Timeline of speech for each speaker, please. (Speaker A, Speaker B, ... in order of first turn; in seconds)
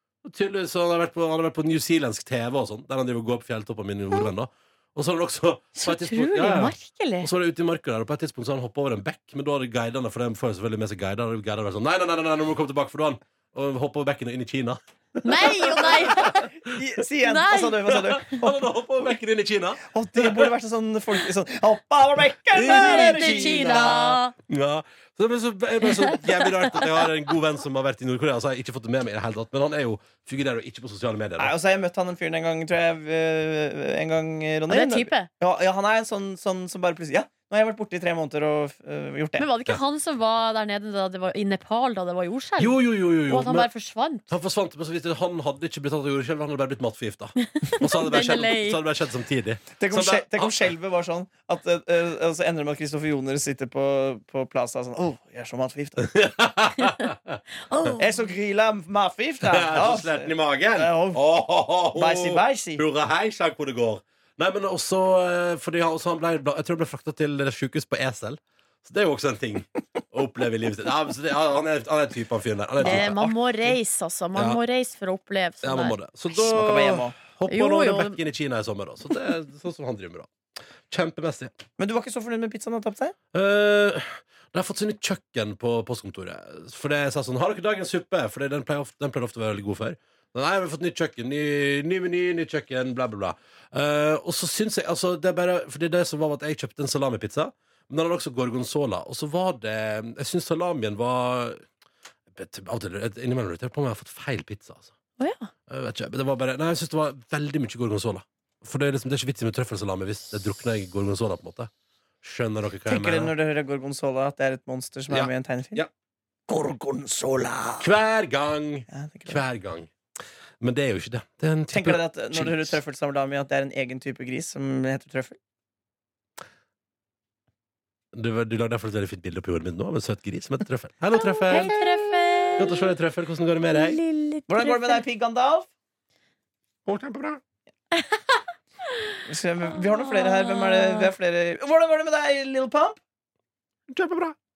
Speaker A: 0.2-16.7, 17.9-20.5, 22.5-31.5, 42.6-43.7, 44.3-50.7, 56.0-57.4, 59.4-73.3, 75.6-80.3, 80.9-81.5, 83.3-101.6, 102.3-104.9, 105.7-111.7, 112.2-113.3, 115.1-115.9, 117.8-119.9, 120.6-122.8, 128.1-131.8, 132.6-134.0, 136.8-137.4, 143.9-144.3
Speaker B: 5.8-7.3, 15.2-16.5, 17.2-18.0, 22.6-24.3, 25.8-26.9, 34.7-35.3, 39.4-44.3, 47.4-48.8, 57.7-58.0, 72.8-76.0, 77.5-78.2, 105.2-105.5, 131.2-132.9, 133.7-135.0, 137.9-139.2, 139.8-141.1
Speaker C: 15.8-18.5, 19.8-24.2, 31.4-39.5, 49.8-56.1, 58.0-61.2, 61.9-62.8, 72.8-73.3, 76.3-77.1, 81.8-83.1, 112.9-115.8, 116.5-117.9, 118.9-119.4, 121.7-125.4, 131.5-132.1, 134.5-135.7, 139.2-143.0